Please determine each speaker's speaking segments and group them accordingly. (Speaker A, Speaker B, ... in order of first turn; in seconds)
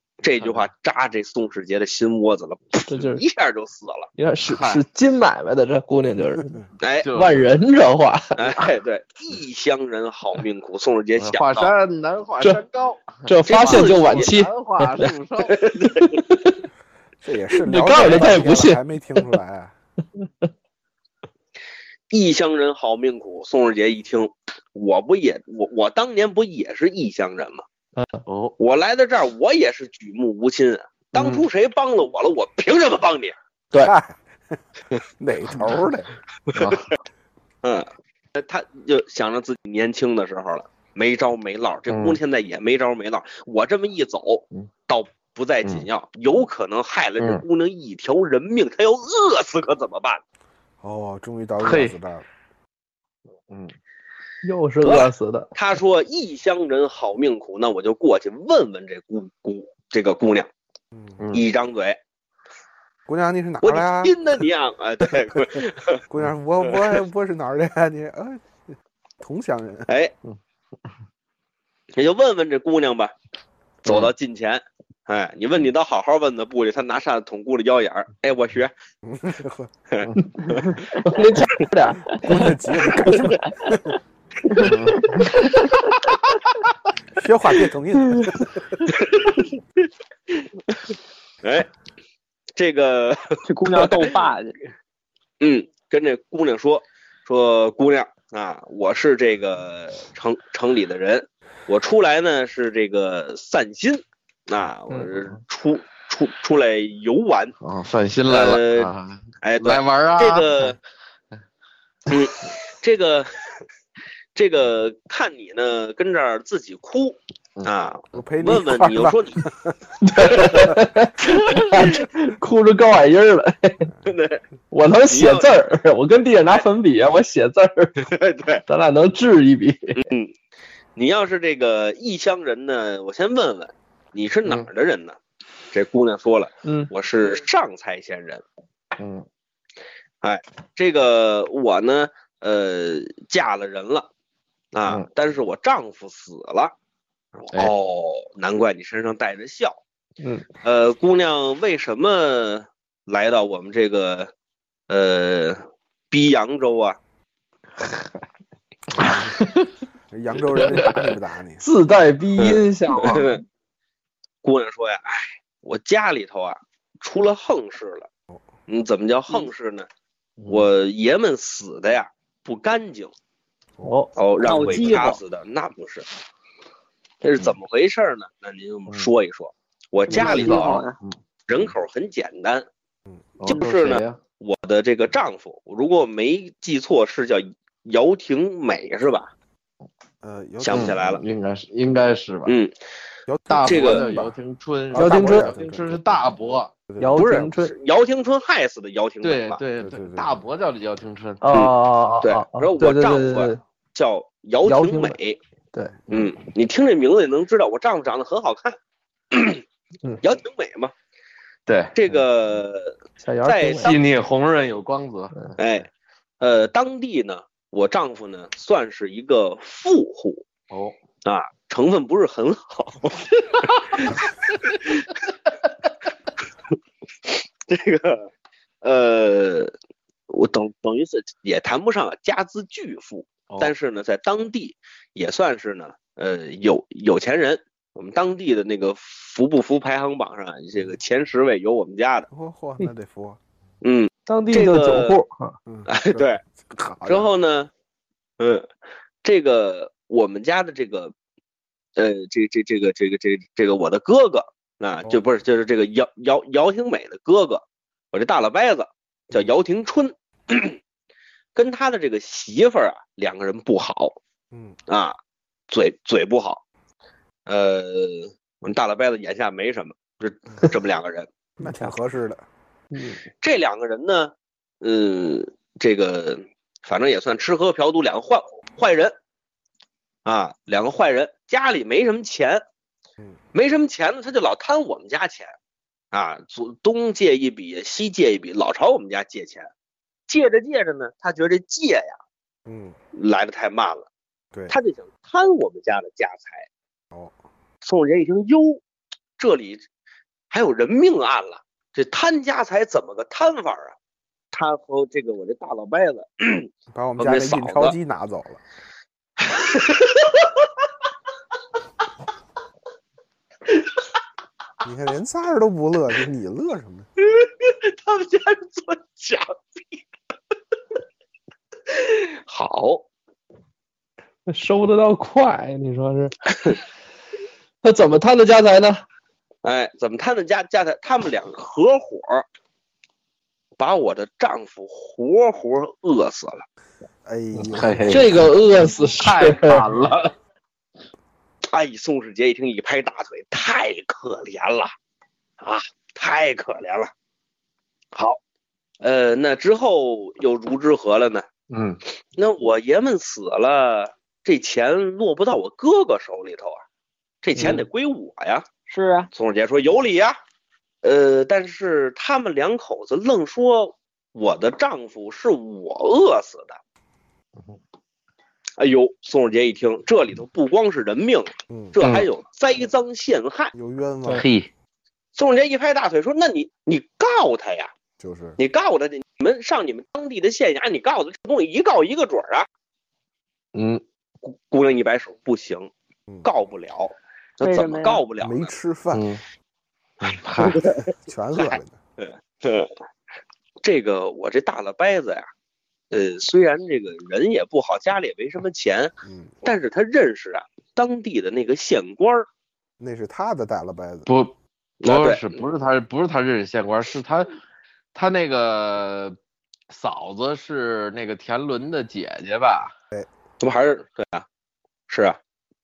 Speaker A: 0.2-4.1, 6.8-7.1, 8.4-11.7, 13.5-14.3, 15.5-16.1, 22.1-27.6, 28.6-33.4, 36.5-36.8, 37.6-50.2, 54.8-60.5, 61.3-62.0, 63.6-66.0, 69.9-70.1, 72.0-73.1, 73.8-78.7, 79.9-80.8, 88.9-89.4, 91.4-91.7, 92.5-94.1, 95.4-107.5, 108.3-108.9, 109.4-110.8, 112.1-113.3, 114.3-119.4, 120.2-120.7, 124.1-124.4, 125.1-125.5, 128.0-128.6, 129.9-130.3, 131.0-135.2, 135.7-138.4, 140.2-144.1, 144.7-146.7, 147.4-149.8, 150.6-154.3, 154.9-157.0, 162.4-163.4, 164.4-168.1, 168.7-169.9, 170.5-173.1, 174.2-176.1, 177.2-180.8, 181.5-182.7, 183.5-189.3, 190.6-191.2, 192.5-192.7, 193.6-194.1, 197.2-199.6, 201.5-205.4, 206.1-208.8, 209.3-209.6, 210.2-210.9, 211.9-214.0, 215.6-215.9, 216.4-220.4, 221.2-225.0, 227.3-228.3, 228.8-229.7, 230.3-242.3, 243.8-245.2, 245.9-246.4, 247.1-247.7, 248.4-248.7, 249.2-251.1, 252.0-260.8, 261.6-264.2, 264.9-265.2, 265.7-266.6, 267.5-271.3, 273.4-279.1, 280.2-282.6, 283.5-285.6, 286.1-289.7, 290.3-292.2, 293.1-294.1, 294.7-296.7, 297.8-298.8, 299.4-299.8, 300.5-304.0, 304.5-308.0, 309.4-310.4, 317.2-320.0, 321.9-323.1, 329.6-332.4, 333.8-336.6, 341.7-344.9, 345.6-347.1, 348.1-348.4, 349.0-351.5, 352.4-356.8, 357.4-358.7, 359.3-360.4, 361.0-366.8, 368.8-373.7, 375.4-377.9, 378.6-382.7, 384.4-385.9, 386.4-388.7, 390.6-391.0, 391.6-392.9, 393.8-395.5, 396.1-402.5, 405.0-405.4, 413.6-414.5, 415.1-415.4
Speaker B: 0.4-0.7, 4.5-4.8, 7.0-7.5, 11.2-15.6, 28.3-28.6, 31.1-31.5, 36.5-36.8, 41.9-42.2, 47.2-47.4, 51.6-52.0, 61.2-61.5, 73.9-74.1, 84.6-85.3, 107.6-110.8, 139.0-139.3, 170.4-170.7, 180.1-181.2, 183.4-184.2, 190.7-192.6, 193.5-196.7, 199.2-201.4, 211.7-212.2, 213.8-215.5, 220.7-220.9, 337.6-338.5, 339.1-340.3, 351.7-352.0, 372.0-372.3, 374.4-374.7, 383.7-384.0, 389.1-389.4, 390.2-390.9, 404.3-407.5, 408.1-409.4, 409.9-412.9
Speaker C: 2.9-3.2, 4.2-6.6, 7.2-8.4, 13.3-15.1, 16.0-16.6, 17.6-19.3, 28.0-28.2, 54.4-55.5, 81.0-82.5, 120.0-123.9, 124.7-128.1, 128.7-129.9, 136.7-136.9, 150.2-150.5, 161.6-163.3, 173.8-174.1, 195.0-195.5, 197.0-197.8, 201.4-203.6, 204.6-205.2, 213.2-214.0, 244.3-245.6, 271.6-271.9, 272.9-273.2, 324.5-326.4, 327.8-329.0, 338.1-339.9
Speaker D: 17.2-19.7, 33.7-34.2, 35.2-36.1, 50.8-52.3, 60.9-61.2, 63.1-64.2, 66.1-68.6, 69.2-69.9, 79.0-79.7, 82.2-83.9, 87.1-88.8, 118.1-119.8, 158.9-159.4, 160.1-161.6, 190.2-191.1, 193.3-194.4, 194.9-196.3, 196.9-197.2, 199.8-200.4, 242.3-243.4, 245.7-247.3, 264.5-264.8, 271.6-272.4, 292.7-293.0, 306.9-308.6, 314.8-317.1, 337.2-338.5, 371.7-372.0, 373.7-374.5, 378.2-378.6, 388.4-389.3, 390.8-392.0, 399.2-399.5, 403.0-404.3
Speaker E: 84.5-85.7, 93.5-94.6, 174.4-175.2, 180.1-181.0, 358.9-359.3, 387.6-388.2